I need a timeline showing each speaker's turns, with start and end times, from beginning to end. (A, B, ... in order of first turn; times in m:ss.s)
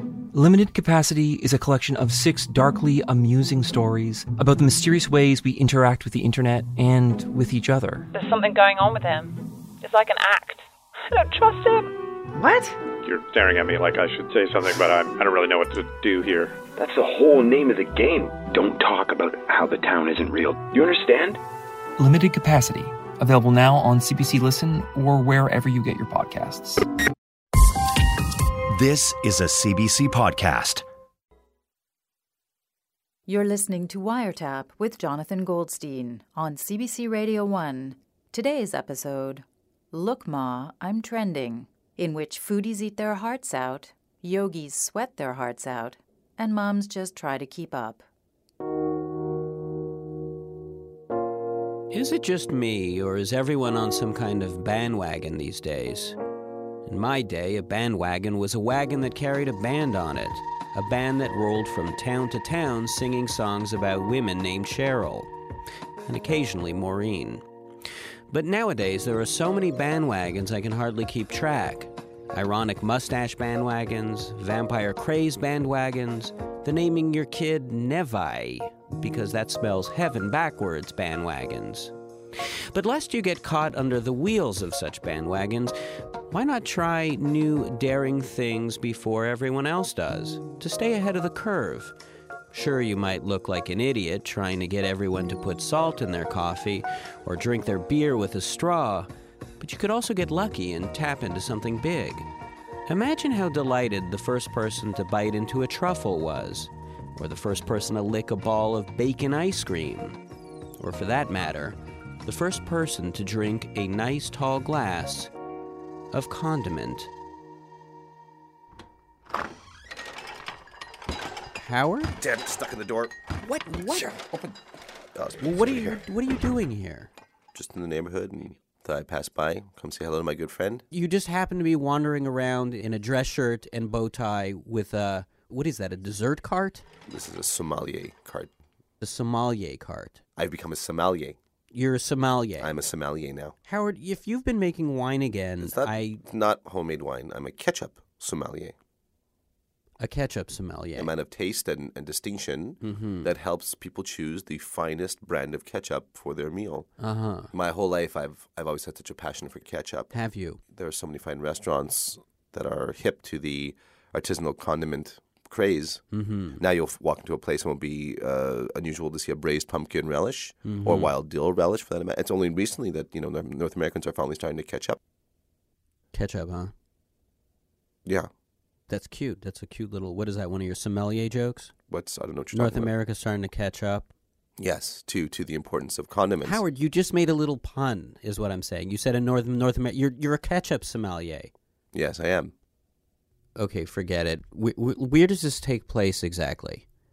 0:00.3-0:08.1 A
0:08.1-0:10.6 B
0:11.1-0:11.9 B
0:13.0-0:16.6 C
0:16.8-0:21.4 D
0:22.0-0:26.8 A
0:28.7-0:30.8 E
0:33.3-0:48.0 F
0:51.9-0:56.2 G
0:56.8-1:05.3 G
1:06.0-1:07.4 G
1:08.3-1:21.9 G
1:22.7-1:25.7 G
1:26.3-1:31.9 G
1:32.5-1:39.1 G
1:39.6-1:42.3 G
1:42.9-1:50.2 G
1:50.8-1:55.3 G
1:56.1-1:57.1 G
2:01.5-2:02.1 G
2:02.2-2:03.2 H
2:03.4-2:04.2 G
2:03.9-2:04.5 H
2:05.1-2:06.0 H
2:05.4-2:07.1 G
2:07.5-2:10.8 H
2:10.9-2:16.8 G
2:17.1-2:18.5 H
2:19.0-2:20.2 G
2:20.4-2:21.4 H
2:21.7-2:22.7 G
2:22.6-2:23.6 H
2:23.6-2:26.2 G
2:25.6-2:28.7 H
2:30.0-2:31.1 G
2:31.0-2:36.9 H
2:32.8-2:33.3 G
2:37.0-2:37.5 G
2:37.5-2:40.1 H
2:40.1-2:40.6 G
2:40.7-2:46.0 H
2:46.1-2:46.6 G
2:46.6-2:55.0 H
2:50.6-2:51.1 G
2:56.1-2:56.7 G
2:58.9-3:01.7 G
3:01.9-3:02.9 H
3:02.5-3:04.0 G
3:04.6-3:06.6 H
3:06.4-3:11.5 G
3:11.9-3:12.5 H
3:13.6-3:16.8 G